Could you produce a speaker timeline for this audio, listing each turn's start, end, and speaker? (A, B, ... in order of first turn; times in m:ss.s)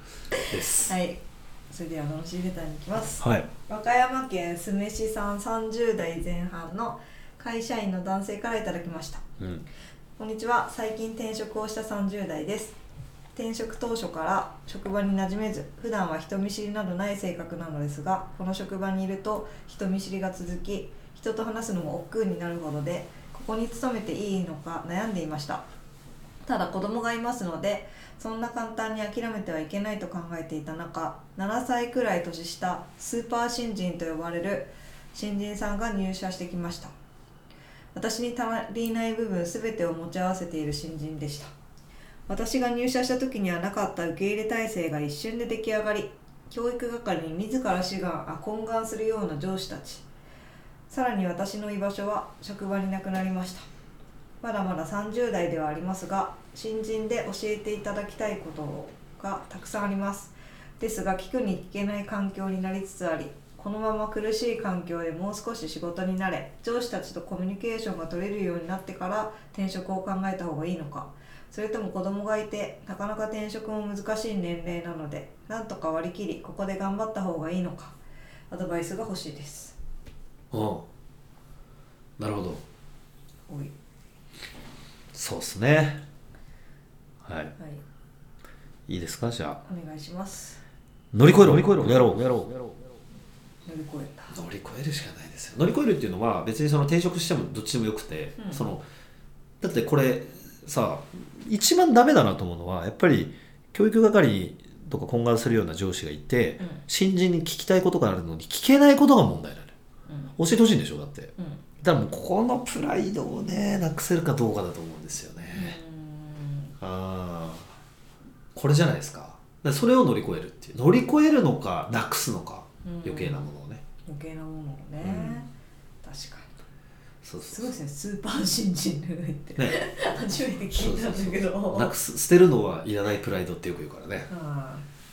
0:00.5-0:00.9 A
0:00.8-0:09.2 B
0:03.2-0:03.5 A
0:09.4-0:09.7 A
0:10.2-0:12.8 B
0:13.3-0:25.6 B
0:26.4-0:36.9 B
0:37.9-0:41.5 B
0:42.3-0:50.0 B
0:50.9-0:53.6 B
0:54.4-1:18.0 B
1:18.5-1:19.8 B
1:20.5-1:20.8 A
1:22.2-1:22.6 A
1:23.5-1:23.7 B
1:25.1-1:26.0 A
1:27.2-1:27.6 A
1:28.9-1:29.6 A
1:29.7-1:30.6 B
1:31.1-1:32.6 A
1:33.6-1:34.4 B
1:34.3-1:38.8 A
1:38.4-1:38.7 B
1:39.6-1:49.8 A
1:50.1-1:50.3 B
1:50.4-1:55.8 A
1:55.5-1:56.7 B
1:56.8-1:57.7 A
1:58.6-2:03.8 A
2:02.8-2:03.5 B
2:04.0-2:05.5 B
2:05.0-2:05.4 A
2:06.0-2:06.5 B
2:07.2-2:07.7 A
2:07.5-2:12.0 B
2:10.7-2:14.3 A
2:14.3-2:14.9 B